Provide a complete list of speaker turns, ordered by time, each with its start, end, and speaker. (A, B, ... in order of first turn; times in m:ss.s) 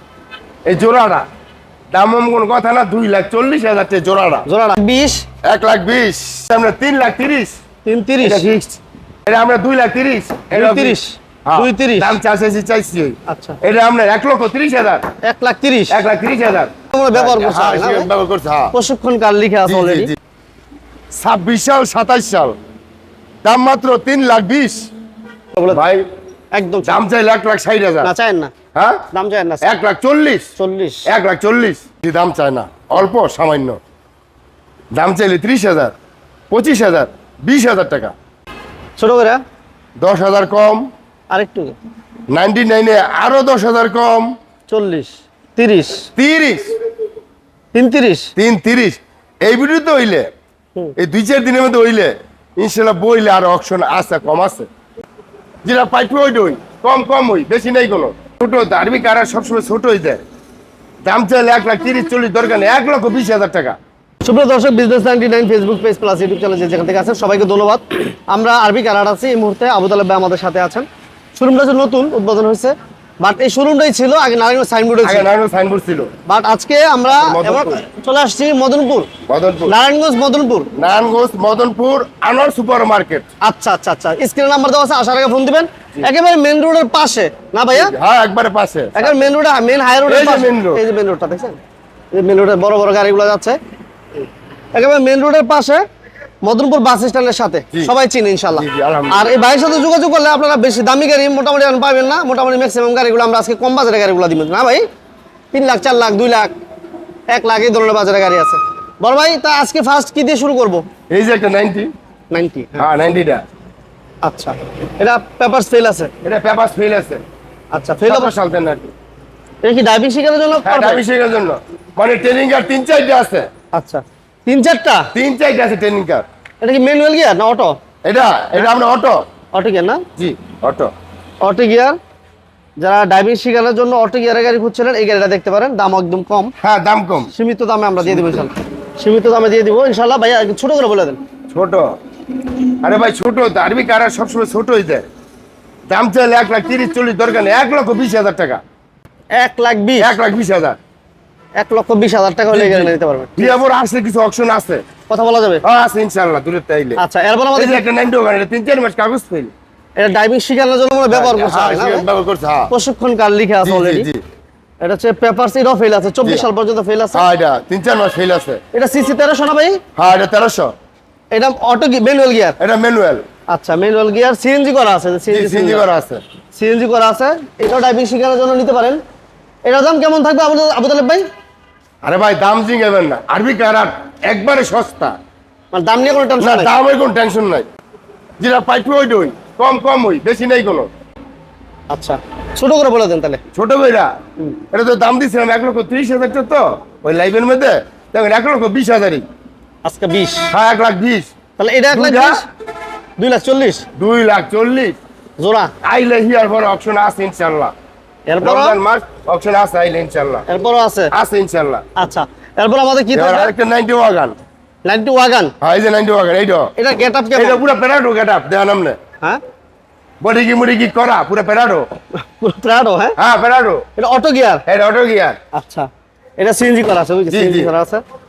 0:00.7-0:01.3 A
0:01.9-0:04.5 A
0:04.5-0:05.2 B
0:05.4-0:07.6 A
0:07.8-0:08.5 B
0:08.2-0:15.0 A
0:10.5-0:12.2 B
0:13.3-0:13.6 B
0:15.2-0:16.1 B
0:15.9-0:18.8 A
0:16.9-0:18.1 B
0:18.7-0:20.1 B
0:19.7-0:20.2 A
0:21.2-0:22.6 A
0:23.4-0:24.9 A
0:25.6-0:25.8 B
0:25.7-0:26.1 A
0:26.5-0:27.0 B
0:26.8-0:28.1 A
0:28.0-0:28.5 B
0:28.8-0:29.0 A
0:29.1-0:29.7 B
0:29.6-0:30.5 A
0:30.6-0:31.1 B
0:31.1-0:33.8 A
0:34.9-0:35.9 A
0:36.5-0:38.1 A
0:39.0-0:39.4 B
0:40.0-0:40.9 A
0:41.3-0:41.8 B
0:42.3-0:44.3 A
0:44.7-0:46.1 B
0:46.2-0:46.7 A
0:47.7-0:48.3 B
0:48.4-0:50.3 A
0:51.0-0:54.7 A
0:55.6-1:00.2 A
1:01.0-1:03.8 A
1:04.2-1:15.3 B
1:15.0-1:16.1 A
1:16.3-1:19.1 B
1:17.1-1:17.8 A
1:19.3-1:19.7 A
1:19.7-1:20.7 B
1:20.8-1:23.3 A
1:23.4-1:27.9 B
1:27.7-1:29.3 A
1:29.0-1:31.6 B
1:30.1-1:30.8 A
1:32.1-1:33.6 B
1:34.7-1:35.8 B
1:36.4-1:44.9 B
1:38.6-1:39.3 A
1:45.5-1:46.5 B
1:47.3-1:50.8 B
1:51.1-1:51.9 A
1:52.3-1:52.9 B
1:52.8-1:53.4 A
1:54.2-1:56.1 B
1:56.2-1:57.2 A
1:57.7-1:58.3 B
1:58.1-1:58.9 A
1:59.6-2:01.0 B
2:00.6-2:03.5 A
2:03.7-2:05.1 B
2:05.1-2:06.2 A
2:06.6-2:07.8 B
2:08.1-2:09.2 A
2:09.5-2:10.0 B
2:10.2-2:10.9 A
2:11.4-2:12.0 B
2:12.8-2:16.5 B
2:16.6-2:17.3 A
2:17.3-2:21.2 B
2:18.0-2:18.5 A
2:21.5-2:21.9 A
2:22.8-2:25.1 A
2:25.9-2:28.6 A
2:29.3-2:30.1 B
2:30.0-2:30.8 A
2:31.6-2:33.6 B
2:32.5-2:34.8 A
2:35.1-2:35.6 B
2:35.6-2:37.0 A
2:37.0-2:37.8 B
2:37.6-2:39.5 A
2:40.0-2:42.1 B
2:41.1-2:42.7 A
2:42.7-2:44.1 B
2:43.6-2:44.2 A
2:44.8-2:47.2 B
2:47.1-2:48.6 A
2:48.7-2:49.8 B
2:50.0-2:50.7 A
2:51.3-2:52.6 B
2:52.6-2:53.2 A
2:53.5-2:55.9 B
2:55.3-2:56.2 A
2:56.6-2:59.0 B
2:59.6-3:01.3 B
3:02.0-3:05.2 A
3:05.7-3:06.7 B
3:06.4-3:07.7 A
3:08.4-3:10.9 A
3:11.9-3:13.4 B
3:13.5-3:14.1 A
3:14.7-3:19.2 A
3:19.8-3:20.5 B
3:20.5-3:21.3 A
3:21.6-3:22.4 B
3:21.9-3:22.4 A
3:23.2-3:23.9 B
3:24.0-3:25.0 A
3:25.4-3:25.7 B
3:25.8-3:27.7 A
3:28.3-3:28.8 B
3:28.4-3:30.5 A
3:30.5-3:31.1 B
3:31.1-3:31.8 A
3:32.0-3:33.5 B
3:33.1-3:34.4 A
3:34.8-3:35.5 B
3:35.6-3:36.7 A
3:36.8-3:37.6 B
3:37.4-3:39.0 A
3:40.2-3:41.9 A
3:42.2-3:43.2 B
3:43.2-3:43.8 A
3:44.0-3:44.6 B
3:44.7-3:45.4 A
3:45.5-3:45.9 B
3:46.4-3:48.0 B
3:47.3-3:47.7 A